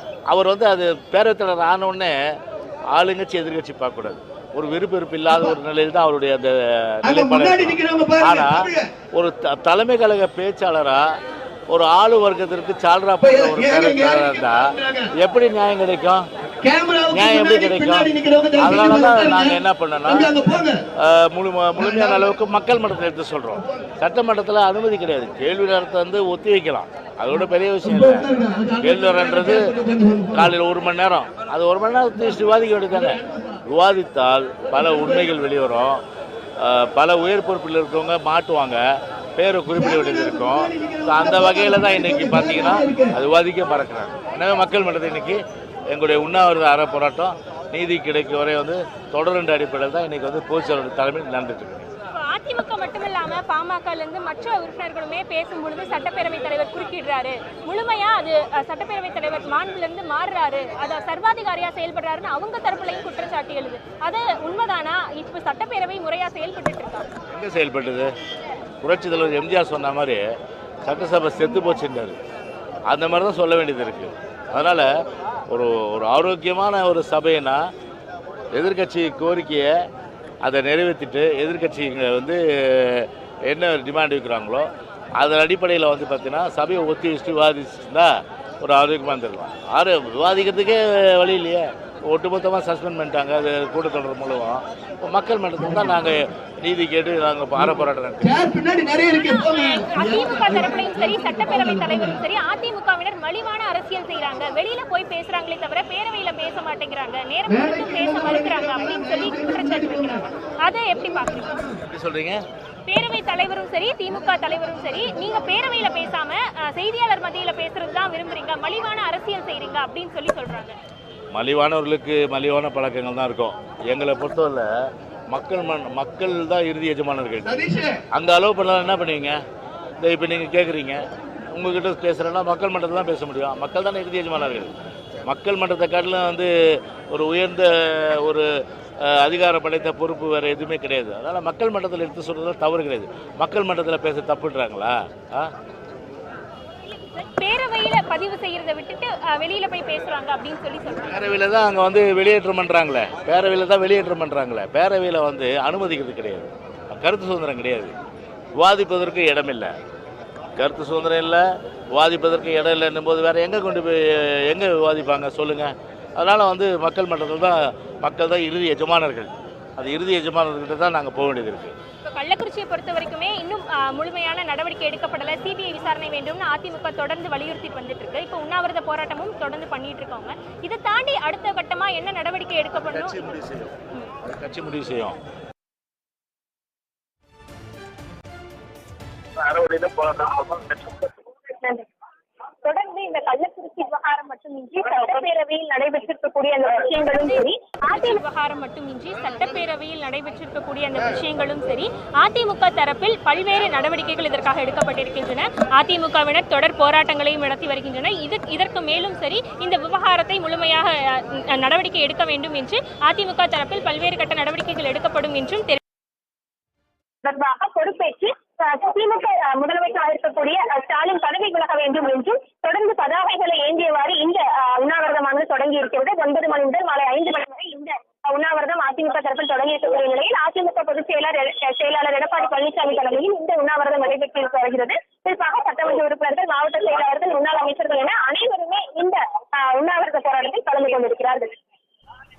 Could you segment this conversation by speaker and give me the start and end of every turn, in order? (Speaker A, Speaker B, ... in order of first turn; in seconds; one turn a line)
Speaker A: 0.3-2.1
Speaker A: 2.9-11.1
Speaker B: 7.0-8.8
Speaker A: 11.7-14.6
Speaker B: 13.2-15.1
Speaker A: 15.2-16.2
Speaker B: 16.6-20.8
Speaker A: 17.1-20.4
Speaker A: 21.0-29.7
Speaker B: 21.8-22.3
Speaker B: 23.6-23.9
Speaker B: 27.8-30.5
Speaker A: 30.3-36.0
Speaker B: 32.9-33.6
Speaker B: 34.6-35.3
Speaker A: 36.6-38.8
Speaker A: 39.4-51.9
Speaker B: 39.7-43.1
Speaker C: 52.1-67.1
Speaker A: 67.3-68.1
Speaker A: 68.8-70.2
Speaker A: 70.8-72.2
Speaker A: 72.9-74.9
Speaker A: 75.5-77.6
Speaker A: 78.5-79.7
Speaker A: 80.4-98.3
Speaker B: 98.2-102.2
Speaker C: 99.0-111.5
Speaker B: 107.5-110.3
Speaker A: 111.9-112.4
Speaker C: 112.9-120.8
Speaker A: 121.3-124.7
Speaker A: 125.3-127.6
Speaker B: 127.5-128.0
Speaker A: 128.1-129.4
Speaker A: 130.0-134.7
Speaker A: 135.2-138.5
Speaker A: 139.0-145.5
Speaker C: 146.8-151.3
Speaker A: 151.1-157.9
Speaker A: 158.5-159.7
Speaker A: 160.6-171.7
Speaker C: 172.0-184.1
Speaker A: 182.9-185.2
Speaker D: 189.4-191.8
Speaker D: 192.6-198.2
Speaker C: 197.0-215.8
Speaker D: 217.2-241.5